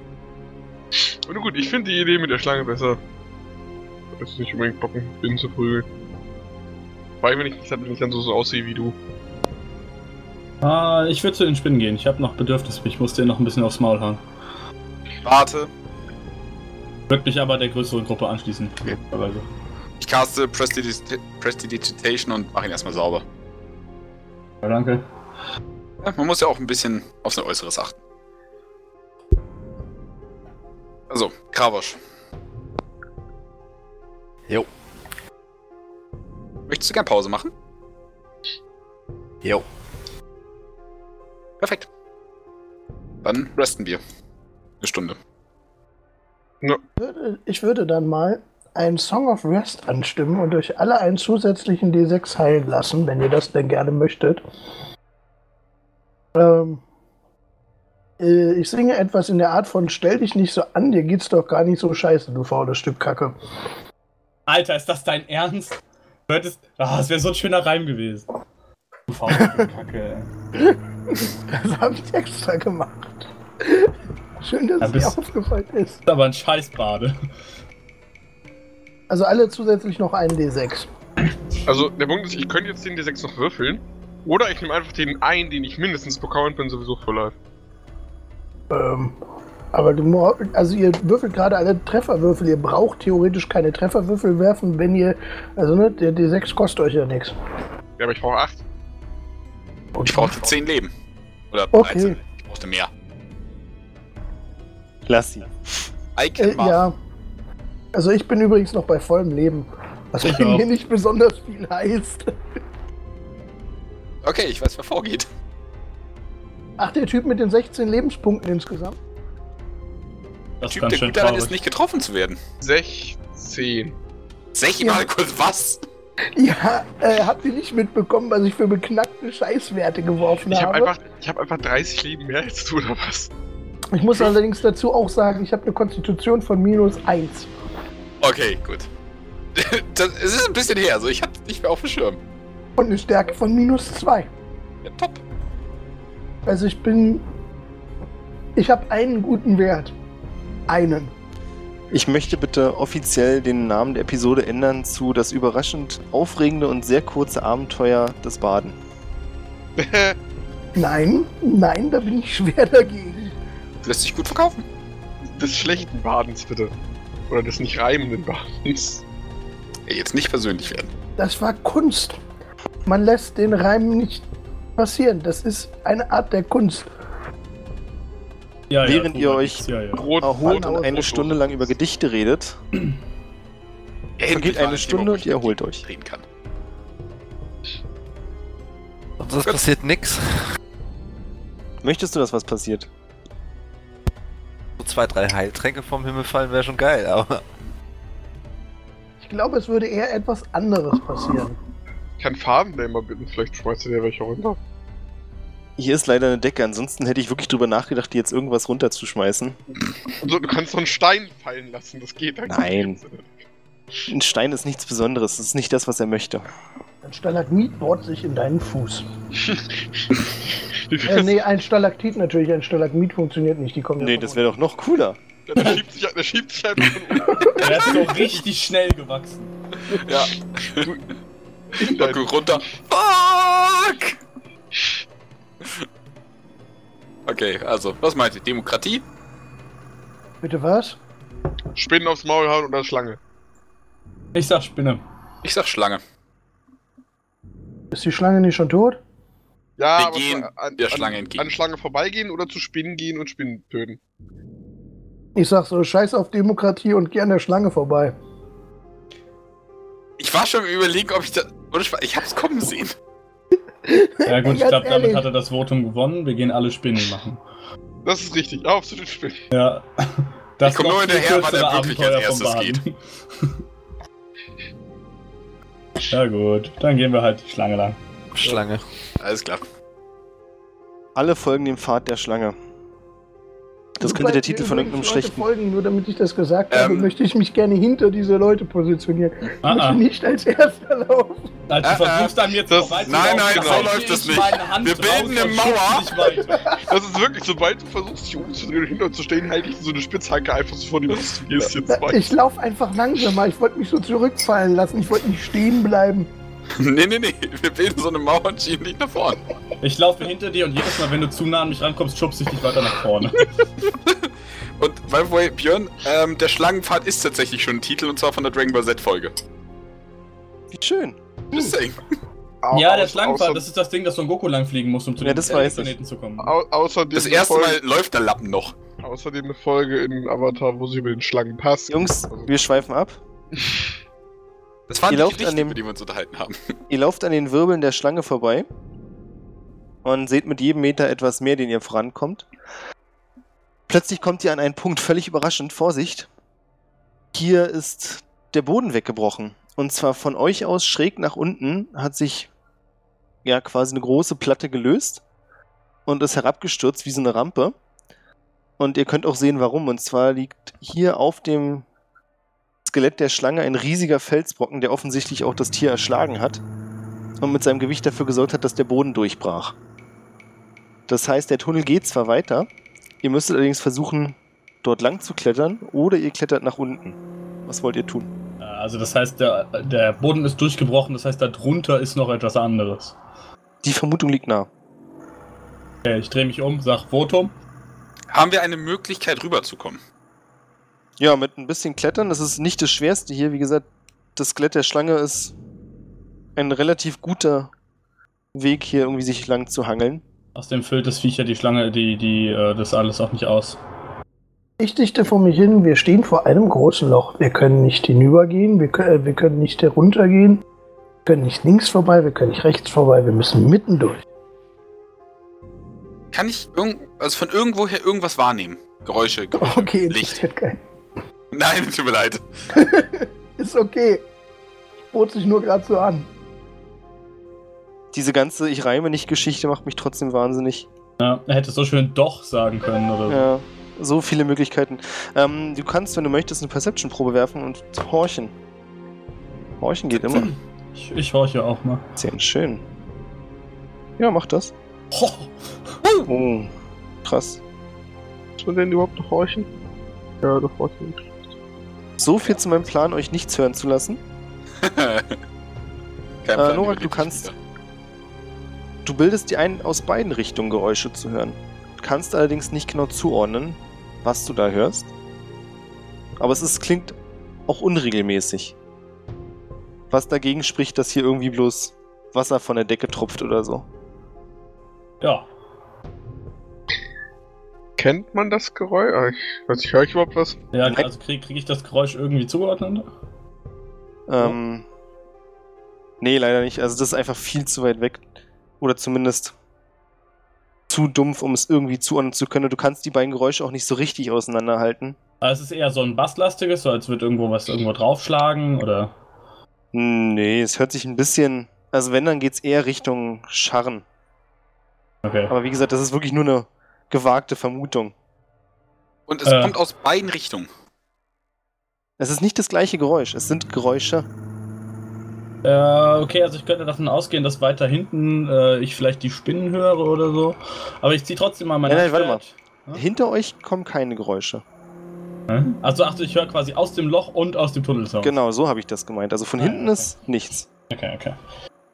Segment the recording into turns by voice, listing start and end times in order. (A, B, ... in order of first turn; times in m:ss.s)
0:01.0-0:03.0 A
0:04.2-0:05.9 A
0:07.2-0:09.0 A
0:10.6-0:14.2 B
0:15.2-0:15.7 C
0:17.1-0:19.5 B
0:20.0-0:23.2 C
0:24.6-0:25.0 B
0:26.0-0:28.0 C
0:31.1-0:32.0 C
0:36.7-0:37.5 C
0:41.6-0:41.9 C
0:43.2-0:44.0 C
0:44.8-0:45.2 C
0:47.0-0:54.4 D
0:56.4-0:56.8 D
0:58.2-1:03.4 D
1:04.5-1:08.3 B
1:09.1-1:10.3 B
1:10.6-1:16.0 D
1:14.8-1:15.2 B
1:16.1-1:17.2 B
1:19.1-1:20.9 D
1:21.7-1:27.4 A
1:28.7-1:29.2 D
1:29.7-1:37.4 D
1:38.0-1:38.6 A
1:40.0-1:40.9 C
1:40.0-1:40.3 D
1:41.5-1:42.9 C
1:41.7-1:42.2 D
1:45.1-1:45.5 E
1:46.2-1:46.8 C
1:46.4-1:47.0 D
1:47.9-1:52.3 D
1:50.2-1:50.7 B
1:54.2-1:55.3 C
1:56.8-1:59.0 D
2:00.6-2:01.6 B
2:00.7-2:02.4 C
2:02.6-2:04.0 A
2:04.6-2:05.8 C
2:04.8-2:05.1 D
2:06.4-2:10.9 D
2:10.5-2:13.3 A
2:13.9-2:17.5 D
2:18.2-2:18.9 C
2:19.6-2:22.2 C
2:22.8-2:24.3 D
2:24.8-2:25.2 C
2:26.5-2:27.2 D
2:28.6-2:29.9 D
2:30.7-2:31.1 D
2:31.9-2:38.8 E
2:39.8-2:40.2 A
2:40.8-2:43.4 D
2:43.8-2:44.7 C
2:45.3-2:46.7 A
2:47.3-2:49.0 A
2:49.9-2:50.9 C
2:51.2-2:52.2 D
2:52.9-2:54.2 D
2:54.8-2:56.9 D
2:58.7-3:00.2 B
2:58.8-2:59.6 E
2:59.9-3:01.7 A
3:00.2-3:02.6 E
3:00.5-3:01.0 D
3:04.2-3:06.2 C
3:04.3-3:05.8 E
3:09.2-3:10.5 F
3:11.8-3:12.9 E
3:14.8-3:17.4 F
3:19.2-3:21.6 D
3:22.2-3:24.6 A
3:25.8-3:29.6 E
3:30.2-3:33.3 A
3:32.5-3:33.0 E
3:34.1-3:36.4 E
3:37.0-3:39.1 D
3:39.4-3:41.4 A
3:41.0-3:44.4 D
3:44.0-3:45.2 E
3:45.5-3:48.1 A
3:47.4-3:49.5 B
3:49.9-3:50.9 C
3:51.7-3:52.6 A
3:51.8-3:54.2 C
3:57.3-3:59.0 C
4:00.4-4:01.0 D
4:01.8-4:03.2 A
4:04.3-4:05.0 B
4:05.4-4:06.0 C
4:07.9-4:09.0 D
4:09.8-4:14.0 A
4:10.0-4:11.5 C
4:15.4-4:18.2 D
4:20.2-4:22.9 C
4:23.8-4:25.3 D
4:24.3-4:27.4 B
4:28.0-4:29.5 A
4:29.5-4:33.6 B
4:30.6-4:32.8 C
4:36.1-4:38.0 B
4:38.3-4:38.8 F
4:39.2-4:39.6 C
4:41.2-4:42.6 E
4:44.0-4:45.5 E
4:44.0-4:51.5 D
4:46.7-4:47.1 C
4:49.6-4:50.0 B
4:51.7-4:56.8 B
4:51.8-4:56.2 C
4:52.7-4:53.9 A
4:56.5-4:56.8 D
4:56.9-5:02.3 A
5:01.9-5:06.3 D
5:06.7-5:09.4 C
5:09.8-5:13.5 B
5:13.8-5:19.4 C
5:20.7-5:21.2 E
5:21.5-5:22.0 C
5:22.6-5:23.6 A
5:22.7-5:26.5 B
5:25.2-5:25.9 E
5:26.4-5:27.8 A
5:27.2-5:28.8 C
5:29.0-5:32.5 A
5:31.9-5:33.2 E
5:34.9-5:36.6 C
5:35.1-5:35.8 E
5:36.9-5:38.7 E
5:40.0-5:42.5 E
5:43.9-5:46.3 E
5:47.3-5:52.5 E
5:53.4-5:55.2 E
5:56.1-5:57.8 E
5:58.8-6:01.9 E
6:02.8-6:06.6 E
6:07.4-6:09.8 E
6:11.1-6:12.7 E
6:13.2-6:18.3 E
6:18.6-6:23.2 B
6:23.8-6:24.7 E
6:26.0-6:27.5 B
6:28.3-6:30.0 C
6:31.2-6:35.5 E
6:36.6-6:37.7 E
6:38.5-6:40.2 E
6:40.6-6:43.8 B
6:44.8-6:50.6 D
6:51.3-6:54.2 D
6:56.3-7:00.4 C
6:59.6-7:00.8 D
7:01.5-7:02.4 C
7:02.7-7:04.2 D
7:05.1-7:06.3 D
7:08.1-7:10.9 E
7:11.2-7:13.5 B
7:13.3-7:18.5 E
7:19.8-7:20.5 E
7:20.3-7:22.1 B
7:22.2-7:22.8 E
7:24.2-7:24.7 E
7:25.1-7:25.5 B
7:26.3-7:26.7 E
7:27.2-7:27.6 E
7:28.6-7:29.7 A
7:30.4-7:31.4 A
7:32.2-7:34.2 E
7:34.8-7:35.4 C
7:36.4-7:37.6 C
7:36.6-7:37.5 E
7:39.0-7:45.1 E
7:46.4-7:47.2 E
7:47.7-7:48.8 E
7:50.1-7:53.9 E
7:55.2-7:55.5 B
7:58.0-8:00.6 A
8:00.7-8:03.1 B
8:04.3-8:04.8 E
8:06.2-8:08.2 E
8:08.8-8:09.5 E
8:10.9-8:15.2 E
8:15.4-8:19.1 B
8:19.9-8:24.0 E
8:25.2-8:25.5 B
8:25.5-8:28.1 E
8:29.3-8:30.7 C
8:29.5-8:29.8 B
8:32.2-8:34.3 E
8:35.6-8:43.0 B
8:41.9-8:42.4 E
8:42.9-8:44.6 E
8:45.5-8:48.4 B
8:48.2-8:50.7 E
8:49.6-8:50.1 B
8:50.9-8:51.4 B